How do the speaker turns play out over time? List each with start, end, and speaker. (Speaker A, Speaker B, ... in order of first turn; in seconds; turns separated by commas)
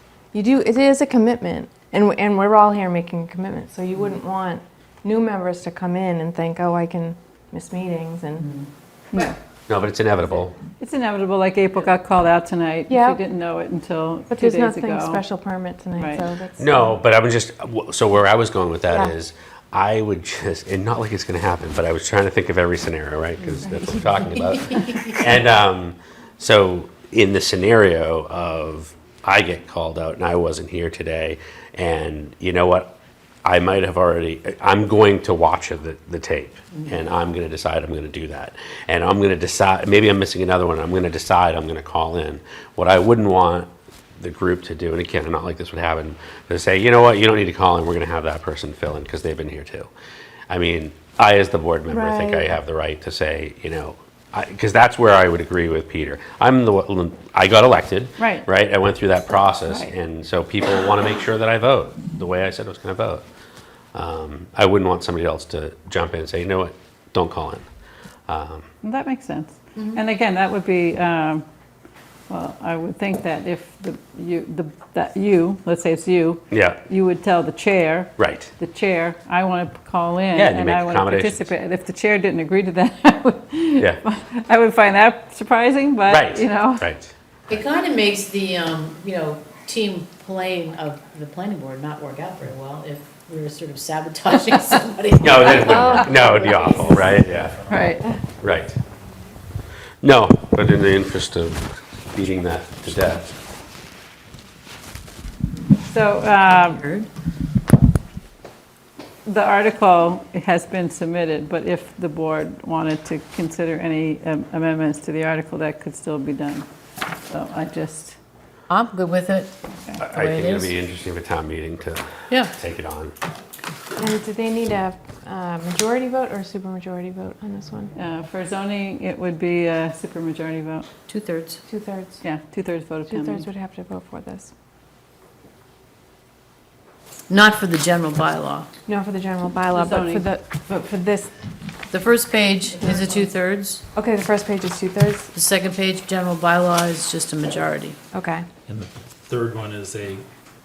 Speaker A: 0.3-8.5, Speaker B: 9.7-10.6, Speaker C: 10.8-15.2, Speaker A: 12.9-13.2, Speaker A: 14.3-17.0, Speaker C: 16.0-16.2, Speaker B: 16.6-49.9, Speaker A: 23.7-24.0, Speaker D: 24.3-25.0, Speaker B: 50.5-63.2, Speaker A: 51.9-52.5, Speaker C: 58.2-58.5, Speaker C: 59.6-59.9, Speaker B: 63.9-67.7, Speaker B: 68.3-68.7, Speaker C: 68.8-71.5, Speaker C: 72.3-86.9, Speaker B: 76.5-76.8, Speaker B: 78.2-78.5, Speaker B: 80.3-81.5, Speaker B: 86.1-87.1, Speaker D: 87.5-97.2, Speaker B: 95.2-97.6, Speaker E: 96.7-98.0, Speaker C: 97.7-98.1, Speaker B: 98.4-98.8, Speaker B: 100.0-103.3, Speaker C: 105.9-106.9, Speaker D: 106.7-107.1, Speaker C: 109.3-116.7, Speaker C: 117.3-118.2, Speaker D: 118.7-120.7, Speaker B: 120.0-123.1, Speaker A: 124.0-128.0, Speaker C: 128.0-130.9, Speaker D: 131.1-131.6, Speaker A: 131.7-132.2, Speaker C: 132.2-133.5, Speaker A: 133.1-134.5, Speaker D: 137.3-138.7, Speaker A: 138.9-141.3, Speaker C: 139.7-140.3, Speaker D: 141.9-143.8, Speaker A: 142.8-143.2, Speaker A: 143.9-145.3, Speaker D: 145.3-148.0, Speaker A: 148.1-148.5, Speaker E: 148.7-150.3